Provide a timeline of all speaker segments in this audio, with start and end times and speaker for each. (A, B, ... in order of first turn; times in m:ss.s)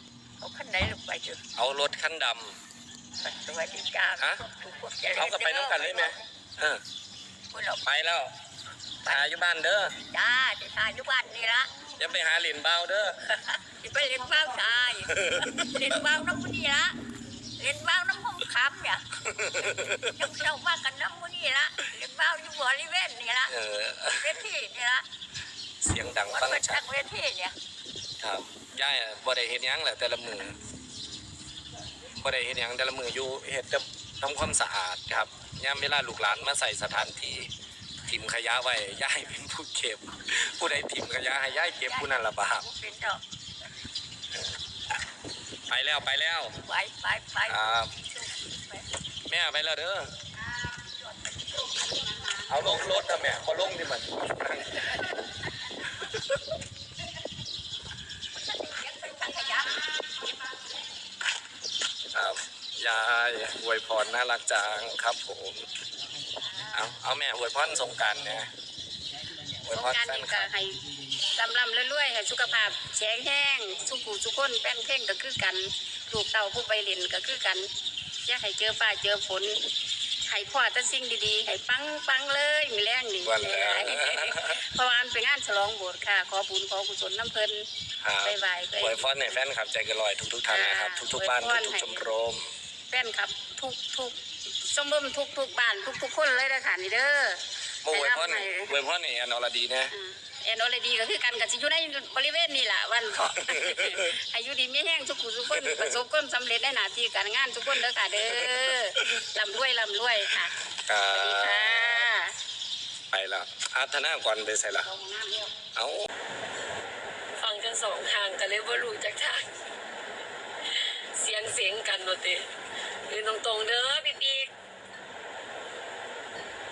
0:00.4-0:01.4 A
0:01.5-0:02.6 B
0:03.2-0:06.2 A
0:04.2-0:04.4 B
0:05.1-0:06.8 B
0:07.5-0:07.8 A
0:07.8-0:08.3 B
0:09.0-0:10.0 B
0:10.1-0:11.8 A
0:11.9-0:13.4 B
0:13.8-0:17.0 A
0:15.0-0:15.7 B
0:17.6-0:19.0 A
0:19.2-0:20.2 B
0:19.6-0:23.5 A
0:23.5-0:24.5 B
0:24.2-0:25.0 A
0:25.8-0:26.8 B
0:26.2-0:27.6 A
0:28.2-0:30.6 B
0:32.2-0:37.5 B
0:38.0-0:42.6 B
0:41.7-0:43.2 A
0:45.7-0:46.6 B
0:46.6-0:48.9 A
0:47.5-0:47.9 B
0:49.2-0:50.1 B
0:52.0-0:52.4 C
0:52.4-0:54.9 B
0:58.3-0:59.9 A
1:02.1-1:05.7 B
1:06.7-1:08.5 B
1:09.6-1:17.7 C
1:09.6-1:10.5 B
1:18.2-1:19.6 C
1:20.2-1:27.7 C
1:23.2-1:24.6 B
1:28.0-1:32.5 B
1:28.2-1:29.4 C
1:30.5-1:32.1 C
1:32.9-1:38.7 C
1:37.8-1:39.9 B
1:39.9-1:50.5 C
1:43.4-1:44.2 B
1:45.5-1:46.0 B
1:48.2-1:49.3 B
1:50.7-1:52.1 B
1:51.1-1:52.3 C
1:53.1-1:54.9 B
1:54.8-1:55.6 C
1:55.7-1:56.1 B
1:57.4-1:59.5 D
2:00.7-2:02.5 D
2:03.1-2:04.5 D